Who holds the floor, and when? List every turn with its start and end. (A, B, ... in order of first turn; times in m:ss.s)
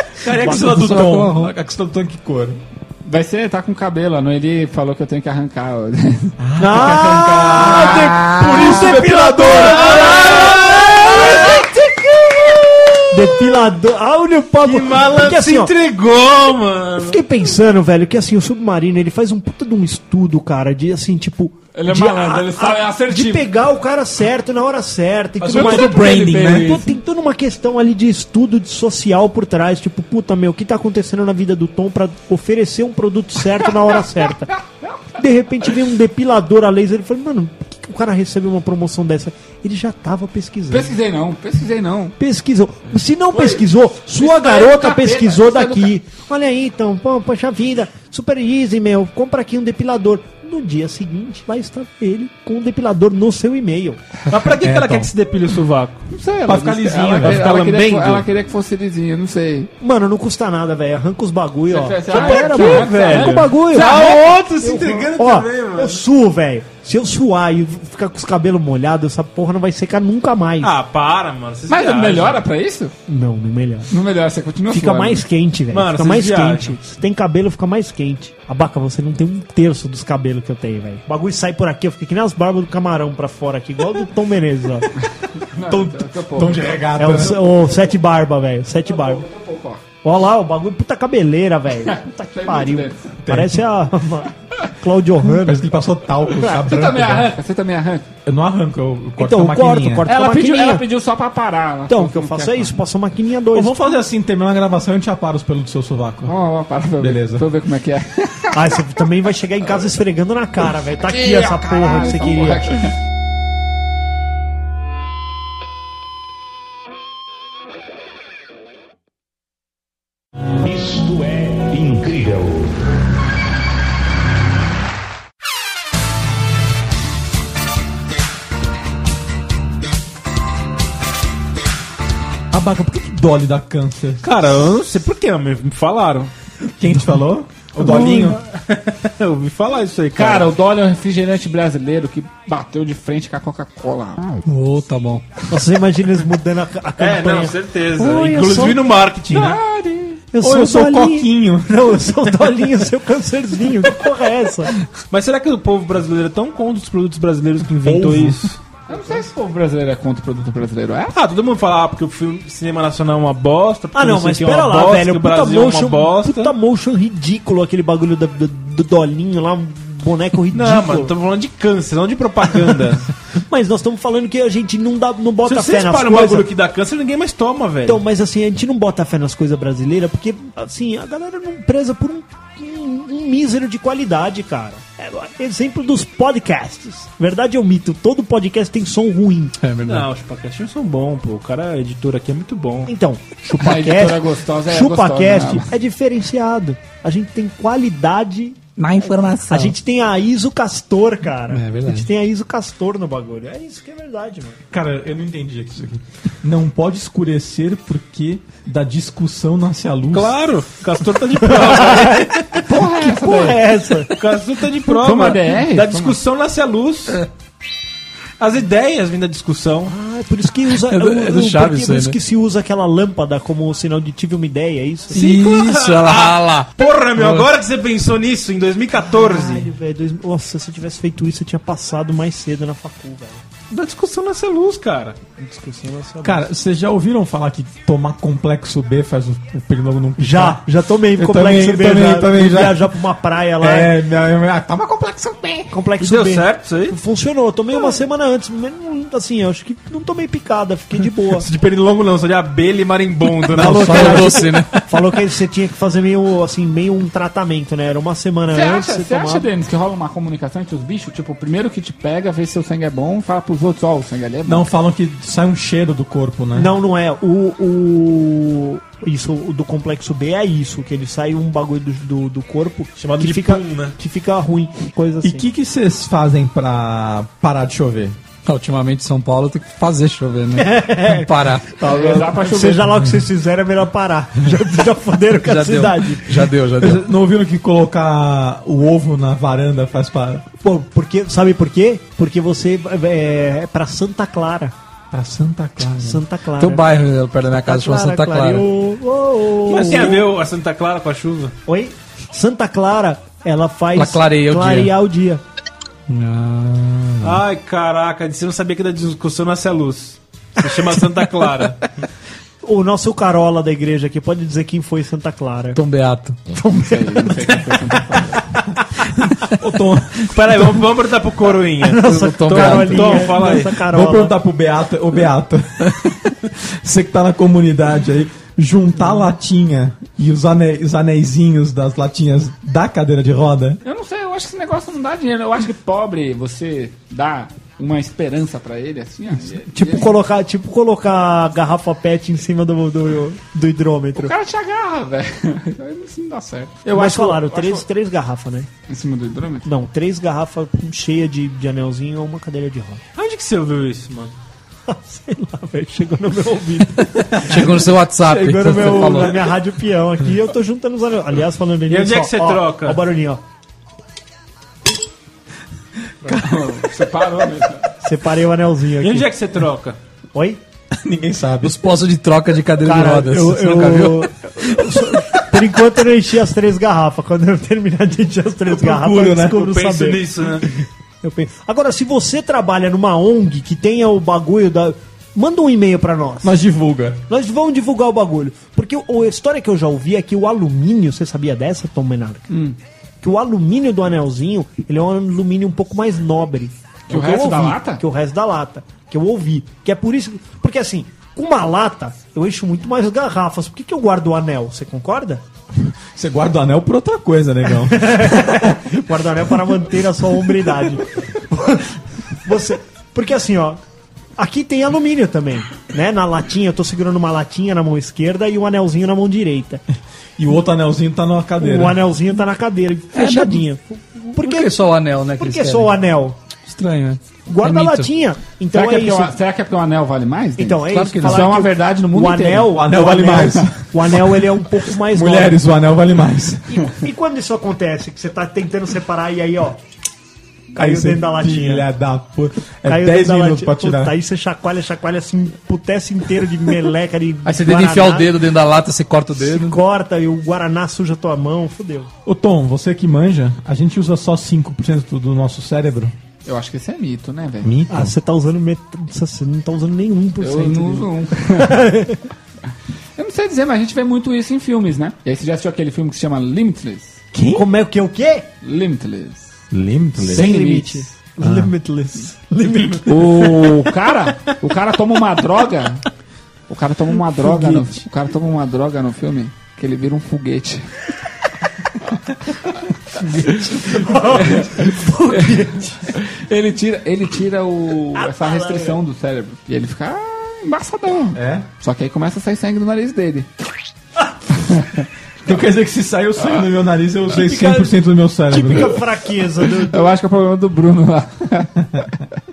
0:00.2-0:02.6 A
0:00.4-0:00.7 B
0:00.5-0:01.5 C
0:03.0-0:06.4 D
0:06.4-0:11.8 A
0:06.6-0:11.6 B
0:08.0-0:09.0 C
0:09.5-0:11.6 E
0:13.1-0:15.7 B
0:14.6-0:17.2 E
0:17.0-0:34.5 B
0:21.7-0:23.5 D
0:25.4-0:26.8 A
0:25.4-0:26.9 D
0:35.2-0:40.9 B
0:40.7-0:42.1 D
0:42.2-0:54.0 B
0:43.3-0:43.6 D
0:44.1-0:45.9 D
0:54.3-0:56.1 E
0:54.6-0:55.1 A
0:56.1-0:59.7 D
0:56.4-0:57.4 A
0:57.2-0:58.3 E
0:59.8-1:10.7 B
1:01.7-1:04.4 D
1:02.1-1:06.0 E
1:10.6-1:12.4 E
1:11.7-1:12.9 D
1:13.1-1:13.9 B
1:13.9-1:15.2 D
1:14.7-1:24.9 B
1:15.7-1:16.7 E
1:25.4-1:26.8 D
1:25.7-1:27.5 A
1:27.0-1:29.3 B
1:28.8-1:29.8 D
1:30.0-1:35.7 B
1:31.9-1:33.1 D
1:33.2-1:33.6 A
1:35.2-1:37.3 A
1:36.3-1:38.1 D
1:38.2-1:40.0 A
1:39.2-1:40.8 B
1:40.0-1:42.8 D
1:41.9-1:43.8 B
1:43.5-1:46.3 A
1:46.2-1:48.8 D
1:47.0-1:47.4 A
1:48.5-1:52.8 B
1:51.0-1:52.9 D
2:00.6-2:02.8 F
2:12.5-2:14.2 A
2:14.2-2:16.3 E
2:16.8-2:18.4 A
2:17.8-2:20.5 E
2:20.1-2:24.4 D
2:24.4-2:25.2 C
2:25.5-2:28.9 B
2:27.0-2:29.6 E
2:29.3-2:30.2 D
2:30.3-2:34.7 B
2:30.4-2:31.9 A
2:35.1-2:38.6 E
2:37.8-2:38.5 A
2:38.9-2:41.2 D
2:41.1-2:46.5 E
2:43.9-2:51.1 B
2:50.5-2:53.1 E
2:53.3-2:56.5 B
2:55.4-2:58.0 E
2:57.8-3:09.6 B
3:09.6-3:10.1 C
3:09.8-3:12.9 E
3:12.8-3:18.6 B
3:13.6-3:15.7 D
3:18.8-3:19.7 C
3:19.5-3:24.6 B
3:21.5-3:22.1 C
3:24.7-3:30.4 A
3:30.1-3:32.3 E
3:31.4-3:34.1 B
3:32.6-3:33.7 D
3:34.1-3:37.2 E
3:34.9-3:36.2 D
3:38.4-3:39.9 E
3:39.9-3:45.2 B
3:40.7-3:42.2 C
3:45.1-3:47.5 C
3:45.1-3:49.7 E
3:49.1-3:53.4 B
3:53.7-3:55.2 E
3:55.4-3:56.4 B
3:56.2-4:02.9 A
4:00.2-4:03.9 B
4:03.6-4:05.7 A
4:05.7-4:11.5 B
4:06.0-4:07.0 E
4:11.3-4:14.8 E
4:13.5-4:14.5 A
4:13.6-4:14.7 C
4:14.8-4:19.5 B
4:18.5-4:24.6 D
4:24.4-4:26.7 A
4:26.5-4:35.5 B
4:33.0-4:34.0 E
4:35.2-4:38.2 A
4:38.4-4:41.8 C
4:40.6-4:46.5 B
4:41.8-4:43.0 D
4:45.4-4:47.0 C
4:46.8-4:50.4 A
4:50.6-4:54.7 B
4:55.1-4:56.2 A
4:56.0-4:56.9 B
4:56.6-4:58.7 C
4:57.5-5:00.3 B
4:59.7-5:01.5 E
5:01.6-5:05.4 B
5:03.9-5:04.9 C
5:06.1-5:07.4 C
5:07.2-5:11.8 E
5:12.6-5:15.8 B
5:15.7-5:16.4 C
5:16.5-5:18.3 B
5:16.7-5:18.5 D
5:19.4-5:20.8 A
5:20.3-5:23.8 E
5:21.8-5:24.3 B
5:22.0-5:23.4 C
5:23.7-5:33.8 A
5:33.8-5:40.2 D
5:39.7-5:44.3 B
5:44.2-5:47.8 D
5:46.9-5:48.7 B
5:48.9-5:49.7 D
5:49.6-5:53.0 B
5:53.1-5:54.3 E
5:54.9-5:57.7 B
5:57.3-5:59.5 C
5:58.3-6:03.4 B
5:58.4-5:59.2 A
6:01.9-6:03.0 E
6:06.3-6:07.9 D
6:08.0-6:09.3 B
6:09.0-6:10.0 E
6:10.3-6:10.6 B
6:10.9-6:11.8 A
6:11.6-6:14.3 C
6:12.8-6:26.6 B
6:18.7-6:19.6 A
6:19.5-6:20.7 E
6:26.4-6:27.2 A
6:27.3-6:32.7 B
6:33.2-6:45.4 B
6:37.1-6:38.0 D
6:46.1-6:48.6 A
6:47.9-6:53.8 B
6:54.4-6:59.8 B
7:00.4-7:02.0 A
7:01.6-7:04.8 B
7:03.1-7:03.6 C
7:04.4-7:05.9 C
7:05.4-7:06.4 B
7:06.7-7:08.1 C
7:07.5-7:09.3 B
7:08.7-7:12.8 D
7:10.6-7:15.6 B
7:10.9-7:11.6 C
7:12.7-7:13.8 A
7:15.1-7:16.8 A
7:16.7-7:19.8 B
7:20.7-7:21.9 B
7:20.7-7:24.1 A
7:22.8-7:28.3 B
7:27.4-7:29.8 C
7:29.4-7:32.1 B
7:32.2-7:36.1 A
7:36.4-7:37.7 D
7:37.6-7:38.1 A
7:37.9-7:42.2 B
7:40.4-7:41.9 D
7:43.2-7:47.2 D
7:47.3-7:47.6 A
7:47.5-7:48.5 B
7:48.6-7:49.5 D
7:49.7-7:50.5 A
7:50.2-7:53.7 B
7:50.2-7:51.1 D
7:51.4-7:51.7 A
7:53.0-7:56.0 D
7:56.7-8:01.1 D
8:03.2-8:06.2 B
8:03.4-8:13.5 D
8:08.2-8:09.0 B
8:11.3-8:11.7 A
8:14.6-8:15.0 D
8:15.4-8:19.0 A
8:17.3-8:18.0 B
8:18.5-8:20.1 B
8:19.8-8:22.1 D